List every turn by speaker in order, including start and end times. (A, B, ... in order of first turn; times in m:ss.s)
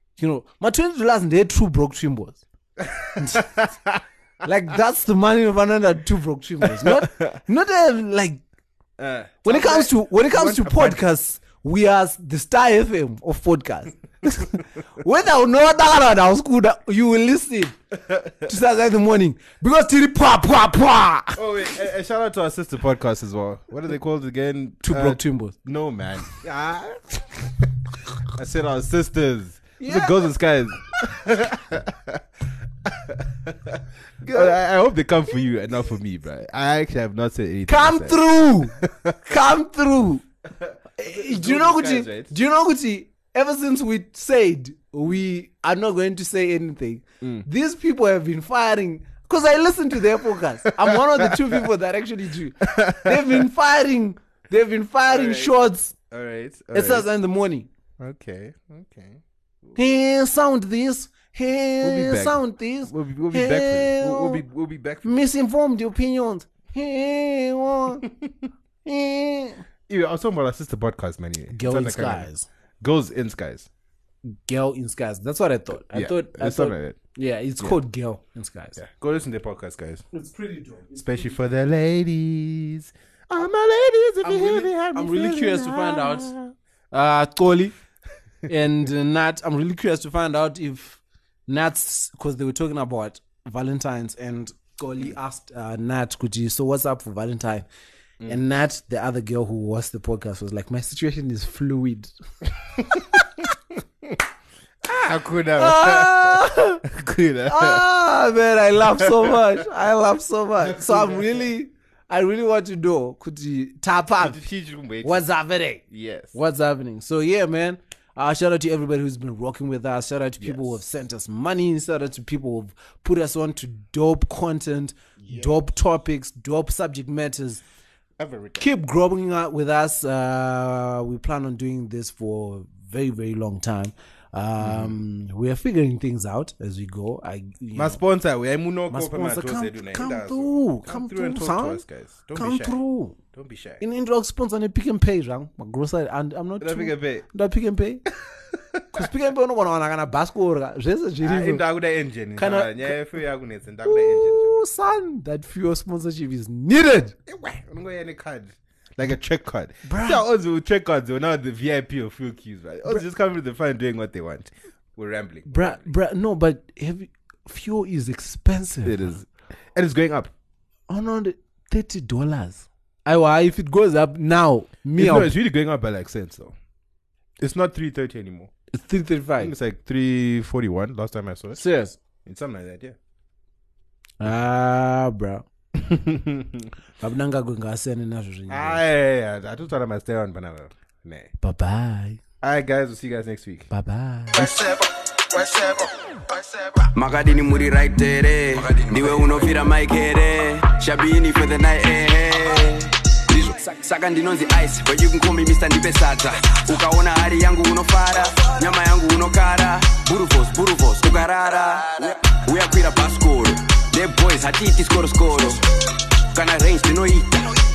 0:00.2-0:02.4 A
0:02.8-0:04.0 B
0:03.2-0:03.5 A
0:04.4-0:08.4 A
0:06.7-0:07.4 B
0:09.0-0:11.0 B
0:09.4-0:17.8 A
0:18.1-0:18.5 B
0:18.4-0:21.4 A
0:21.4-0:32.2 B
0:24.8-0:25.6 A
0:29.8-0:30.3 A
0:32.8-0:38.2 B
0:34.2-0:34.6 A
0:37.7-0:40.2 A
0:38.8-0:39.2 B
0:40.6-0:42.4 B
0:41.0-0:56.0 A
0:47.2-0:47.5 B
0:50.7-0:51.7 B
0:52.6-0:53.5 B
0:55.1-0:57.1 B
0:56.7-0:57.7 A
0:58.0-0:59.8 B
0:59.8-1:04.4 A
1:01.8-1:05.2 B
1:05.0-1:08.0 A
1:08.8-1:09.6 A
1:09.9-1:12.3 B
1:11.5-1:12.5 A
1:12.8-1:13.7 B
1:14.4-1:18.8 A
1:15.7-1:17.0 B
1:18.8-1:20.1 B
1:20.1-1:21.3 A
1:21.0-1:26.6 B
1:24.2-1:26.4 A
1:26.9-1:27.8 A
1:28.5-1:37.7 A
1:38.3-1:42.1 A
1:42.8-1:44.2 B
1:43.0-1:43.2 A
1:44.8-1:47.9 B
1:45.6-1:46.8 A
1:47.5-1:54.4 A
1:49.0-1:49.6 B
1:50.6-1:51.5 B
1:54.2-1:55.3 B
1:55.0-1:55.8 A
1:55.9-1:56.4 B
1:56.3-2:07.6 A
2:00.4-2:00.8 B
2:05.2-2:05.6 B
2:08.2-2:08.7 B
2:08.6-2:18.0 A
2:14.6-2:14.9 B
2:17.8-2:22.8 B
2:18.9-2:21.8 A
2:22.4-2:23.2 A
2:23.3-2:23.8 B
2:23.8-2:28.0 A
2:26.6-2:27.3 B
2:28.2-2:29.1 B
2:28.9-2:31.6 A
2:31.2-2:34.7 B
2:32.4-2:33.0 A
2:33.9-2:37.2 A
2:37.3-2:45.9 B
2:39.8-2:40.2 A
2:45.5-2:49.2 A
2:48.8-2:50.3 B
2:50.9-2:55.3 A
2:55.0-2:56.6 B
2:57.4-2:58.5 B
2:58.7-2:59.5 A
2:59.4-3:01.6 B
3:01.6-3:02.0 A
3:02.2-3:03.0 B
3:04.2-3:05.4 A
3:05.8-3:06.7 B
3:07.0-3:08.8 A
3:08.5-3:11.3 B
3:11.4-3:12.2 A
3:12.4-3:13.7 B
3:13.7-3:14.5 A
3:14.4-3:35.6 C
3:36.3-3:37.6 C